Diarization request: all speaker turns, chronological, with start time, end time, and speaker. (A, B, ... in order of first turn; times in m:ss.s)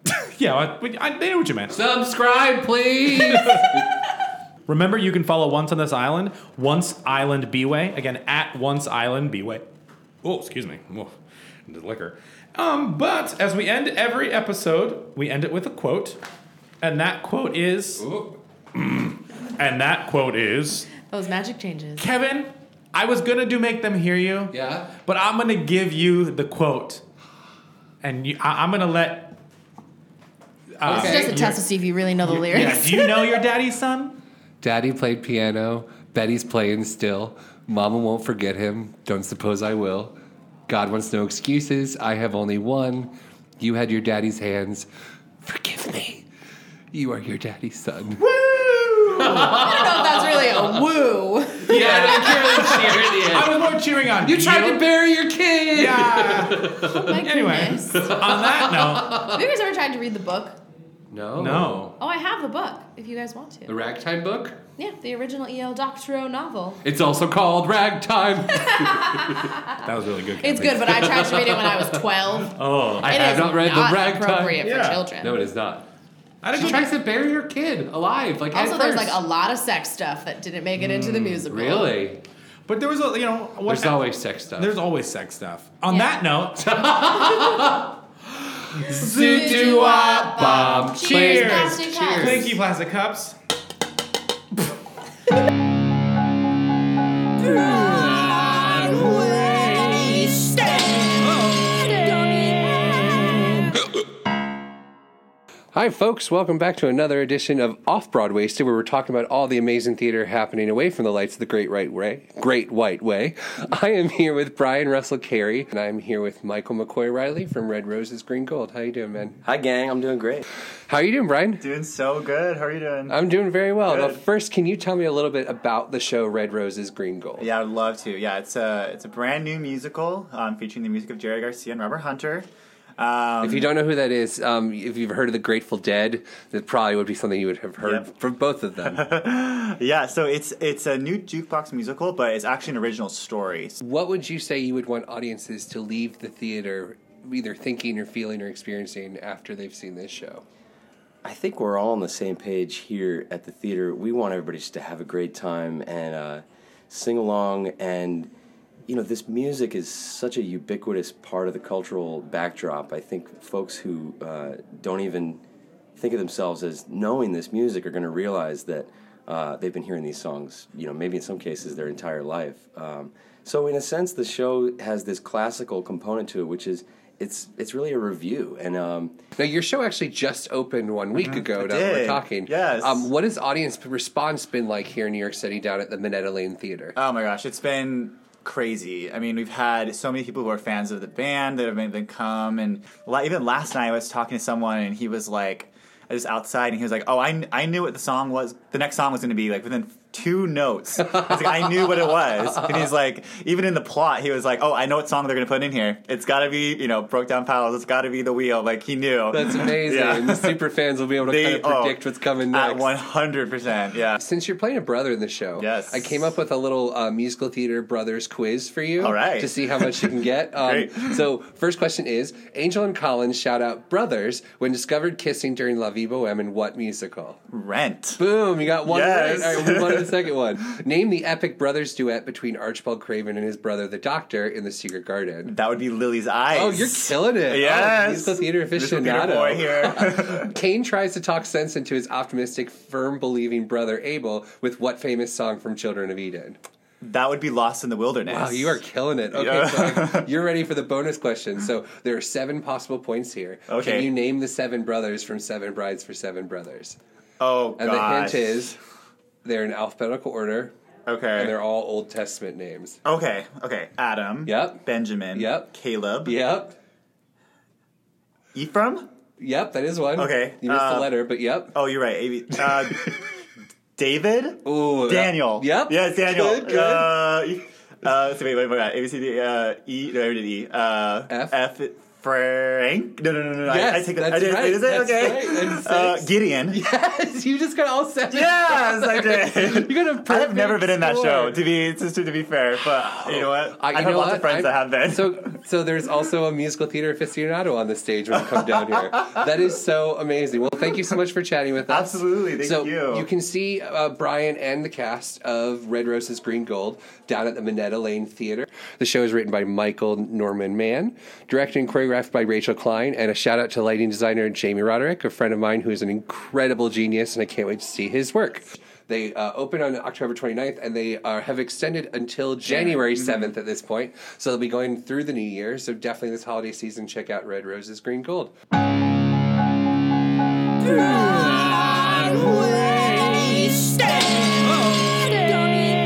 0:00.3-0:01.8 A
0:01.7-0:03.8 B
0:03.2-0:03.6 A
0:04.7-0:09.7 A
0:10.2-0:11.1 A
0:11.7-0:16.2 A
0:16.8-0:18.0 A
0:18.0-0:18.4 B
0:18.7-0:20.9 A
0:21.0-0:22.0 C
0:22.0-0:27.0 A
0:24.5-0:24.9 B
0:28.0-0:29.3 A
0:30.8-0:31.6 A
0:30.8-0:31.4 B
0:30.9-0:33.3 C
0:32.2-0:34.2 A
0:34.6-0:40.1 B
0:40.7-0:44.8 B
0:45.4-0:46.2 B
0:46.9-0:48.2 B
0:48.2-0:49.8 A
0:49.2-0:50.5 B
0:49.5-0:52.8 C
0:51.6-0:56.9 B
0:51.7-0:54.8 A
0:55.7-0:59.2 A
0:56.8-0:58.1 C
0:57.9-0:59.4 B
0:59.3-1:00.6 C
1:01.1-1:01.9 B
1:01.4-1:01.9 A
1:02.0-1:03.7 C
1:03.7-1:04.6 B
1:04.8-1:06.8 C
1:06.8-1:09.4 B
1:08.6-1:09.8 C
1:09.8-1:11.1 A
1:10.4-1:15.4 C
1:10.8-1:12.0 B
1:12.6-1:13.6 A
1:13.0-1:14.6 B
1:14.6-1:15.0 A
1:15.2-1:15.8 B
1:16.4-1:16.9 A
1:16.5-1:19.2 B
1:18.5-1:21.9 C
1:20.8-1:21.4 A
1:21.4-1:22.2 B
1:22.7-1:24.0 A
1:23.7-1:24.7 B
1:24.6-1:26.7 A
1:25.9-1:26.1 C
1:26.6-1:27.8 B
1:28.7-1:32.6 B
1:28.8-1:33.4 A
1:29.2-1:32.5 C
1:45.7-1:59.4 B
1:59.4-2:00.4 D
2:00.9-2:01.6 B
2:01.6-2:03.2 E
2:03.1-2:07.5 B
2:03.9-2:04.2 E
2:07.4-2:12.5 E
2:13.0-2:13.7 E
2:13.4-2:19.0 B
2:17.8-2:18.1 E
2:18.8-2:23.8 E
2:23.8-2:30.4 B
2:31.2-2:38.3 D
2:38.9-2:45.4 D
2:46.0-2:59.2 D
2:59.4-3:07.0 B
3:01.2-3:03.1 E
3:07.0-3:30.5 E
3:21.0-3:22.9 B
3:29.3-3:33.0 B
3:31.2-3:32.0 E
3:32.5-3:34.2 E
3:34.1-3:47.4 B
3:35.6-3:36.2 E
3:39.0-3:41.1 E
3:47.5-3:48.2 E
3:48.2-3:55.5 B
3:48.8-3:50.1 E
3:55.4-4:00.5 E
3:56.5-4:06.6 B
4:07.0-4:08.8 E
4:08.2-4:17.0 B
4:09.3-4:10.3 E
4:13.7-4:14.1 E
4:17.4-4:18.7 E
4:17.8-4:18.8 B
4:19.4-4:20.7 B
4:21.1-4:21.6 E
4:21.3-4:23.0 B
4:23.0-4:26.4 E
4:24.4-4:24.8 B
4:25.3-4:25.7 B
4:26.2-4:26.7 B
4:28.5-4:29.0 E
4:29.4-4:31.7 B
4:30.2-4:31.1 E
4:31.7-4:33.2 E
4:34.0-4:46.8 E
4:34.6-4:37.2 B
4:41.3-4:41.6 B
4:43.6-4:51.7 B
4:48.3-4:55.4 E
4:53.1-5:28.5 B
5:01.9-5:03.3 E
5:22.7-5:23.5 E